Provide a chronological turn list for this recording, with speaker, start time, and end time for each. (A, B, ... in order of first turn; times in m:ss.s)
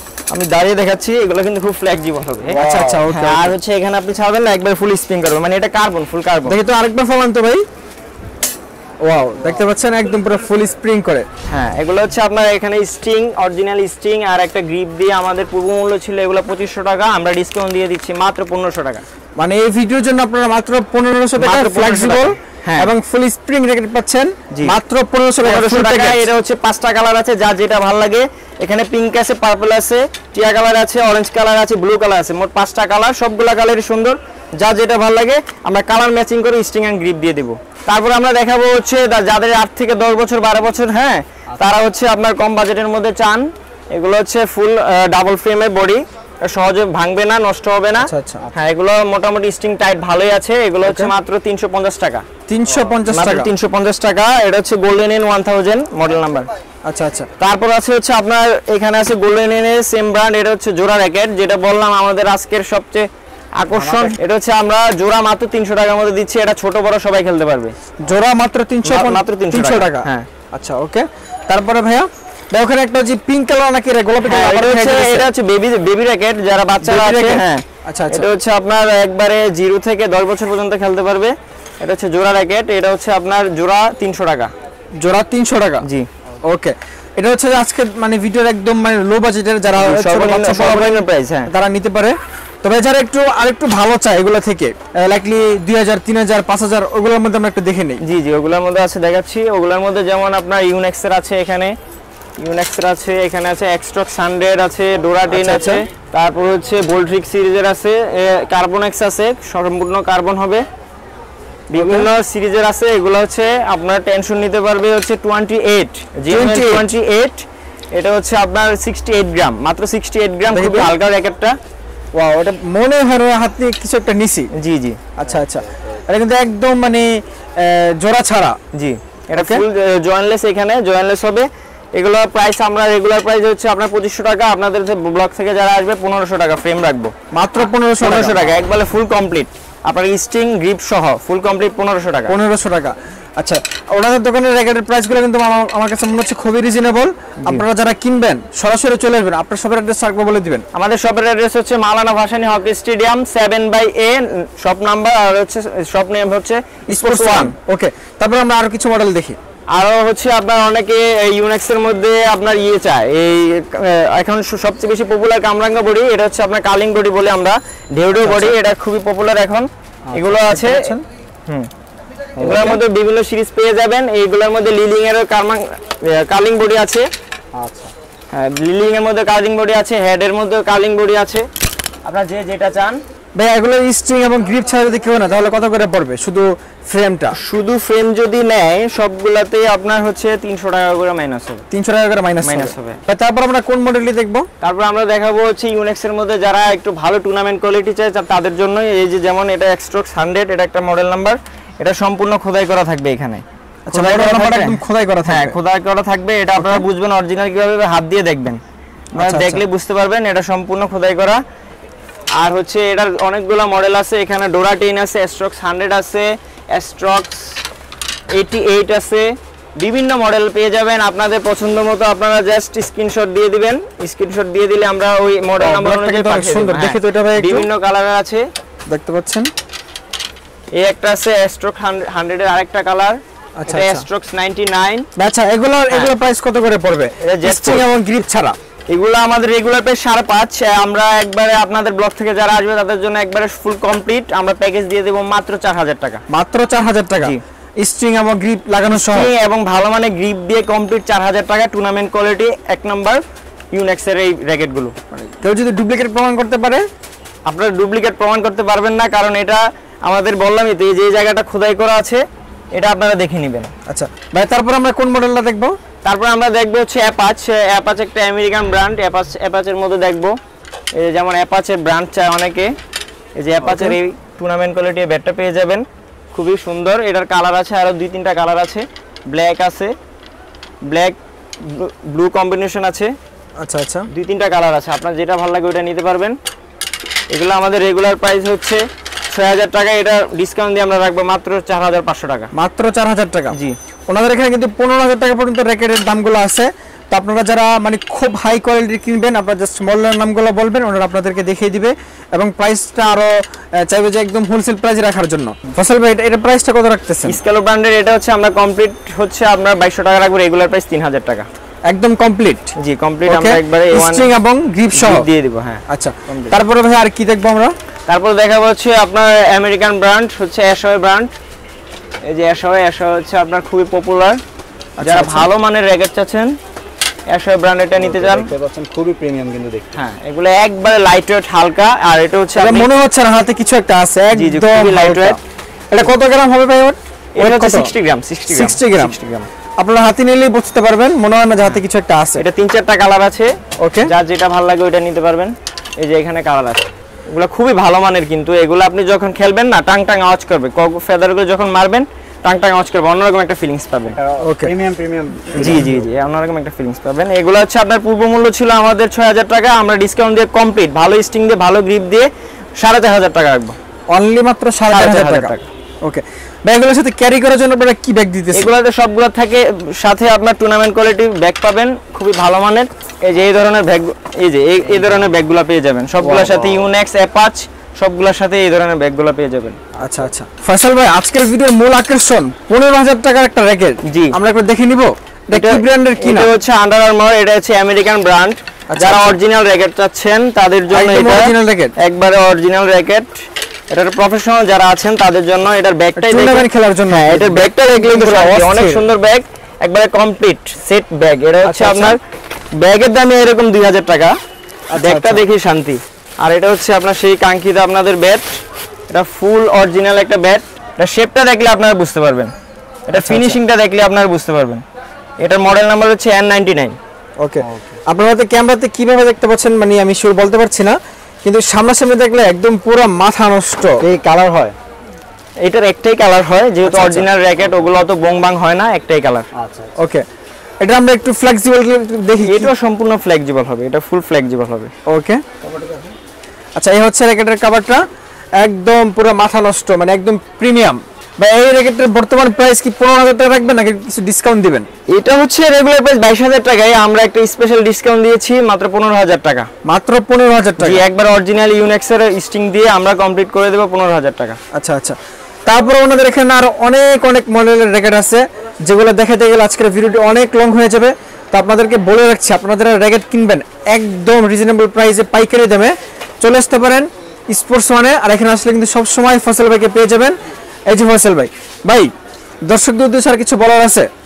0:00.3-0:06.6 A
0:02.5-0:03.6 B
0:06.4-0:07.6 B
0:09.0-0:11.2 B
0:11.5-0:19.0 A
0:19.4-0:26.3 B
0:21.4-0:22.9 A
0:25.4-0:52.2 A
0:48.0-0:48.5 B
0:50.8-0:51.1 B
0:52.5-0:53.5 B
0:53.1-0:56.5 A
0:56.9-0:57.3 B
0:57.4-1:03.1 A
1:03.6-1:07.7 A
1:08.0-1:15.3 B
1:08.8-1:10.3 A
1:14.2-1:24.5 A
1:16.8-1:18.3 B
1:25.0-1:25.8 B
1:26.4-1:38.0 B
1:29.7-1:31.5 A
1:38.0-1:41.7 A
1:42.4-1:50.6 A
1:45.3-1:45.8 B
1:51.7-2:01.5 A
1:51.7-1:52.1 B
1:56.3-1:56.9 B
2:00.5-2:00.9 B
2:02.1-2:04.5 B
2:04.5-2:05.0 A
2:05.2-2:08.6 B
2:08.7-2:17.1 A
2:09.3-2:09.6 B
2:17.3-2:18.4 B
2:18.0-2:22.3 A
2:22.3-2:30.6 B
2:30.7-2:37.5 A
2:36.9-2:39.4 B
2:39.7-2:50.9 A
2:48.2-2:48.6 B
2:50.4-2:51.0 B
2:52.4-2:52.8 C
2:52.4-2:57.1 A
2:57.5-2:57.9 C
2:58.3-3:01.5 A
3:02.0-3:03.0 A
3:03.4-3:07.4 B
3:07.3-3:11.6 A
3:11.7-3:14.5 B
3:12.4-3:13.0 A
3:14.6-3:28.6 A
3:23.9-3:25.6 B
3:26.6-3:26.8 B
3:29.1-3:31.4 A
3:29.2-3:29.6 B
3:32.4-3:37.6 A
3:38.3-3:48.4 A
3:45.6-3:47.7 B
3:48.9-3:49.5 B
3:50.8-3:55.1 A
3:53.6-3:54.0 B
3:55.2-3:58.6 B
3:57.2-3:57.8 A
3:58.9-4:06.2 A
4:06.3-4:09.3 B
4:09.0-4:14.9 A
4:15.1-4:16.8 B
4:17.5-4:23.7 A
4:23.9-4:25.8 B
4:26.0-4:30.4 A
4:31.0-4:32.7 A
4:33.4-4:39.9 A
4:33.6-4:34.0 B
4:40.8-4:43.1 A
4:43.6-4:44.1 B
4:44.1-4:46.4 A
4:47.3-4:52.5 A
4:52.5-4:53.6 B
4:54.1-5:07.4 B
5:07.2-5:11.5 A
5:11.9-5:12.7 B
5:12.8-5:14.3 A
5:13.3-5:15.3 B
5:14.9-5:16.6 A
5:15.9-5:17.7 B
5:18.1-5:21.3 A
5:22.2-5:24.4 A
5:25.0-5:25.5 B
5:25.0-5:26.5 A
5:27.3-5:28.5 A
5:28.0-5:29.9 C
5:29.9-5:32.9 A
5:32.5-5:35.4 B
5:34.3-5:35.4 A
5:35.9-5:37.9 B
5:37.4-5:39.5 A
5:38.5-5:39.2 B
5:39.8-5:42.4 B
5:42.4-5:54.2 A
5:43.8-5:44.1 B
5:54.2-5:55.8 C
5:54.4-5:54.7 B
5:55.5-6:03.8 A
6:04.1-6:08.7 B
6:04.9-6:05.6 A
6:08.5-6:19.8 A
6:16.3-6:16.8 C
6:20.0-6:26.5 B
6:24.0-6:24.4 A
6:25.5-6:42.2 A
6:28.9-6:29.4 B
6:30.9-6:31.9 B
6:36.2-6:39.1 B
6:41.6-6:42.2 B
6:42.7-6:44.4 A
6:44.9-6:45.4 B
6:45.0-6:52.5 A
6:53.1-6:54.8 A
6:53.1-6:53.6 B
6:55.4-6:57.0 A
6:57.4-7:04.0 B
6:57.7-6:58.0 C
7:04.0-7:04.8 C
7:05.6-7:09.5 A
7:06.8-7:07.3 B
7:09.5-7:09.9 C
7:10.0-7:10.2 B
7:10.8-7:12.7 B
7:12.4-7:14.9 A
7:15.0-7:15.4 B
7:15.6-7:16.1 C
7:16.8-7:18.0 B
7:18.6-7:24.9 B
7:25.1-7:29.7 A
7:29.8-7:31.0 B
7:30.8-7:34.6 A
7:34.7-7:35.2 B
7:35.7-7:50.4 B
7:50.9-7:52.1 B
7:52.6-7:54.1 B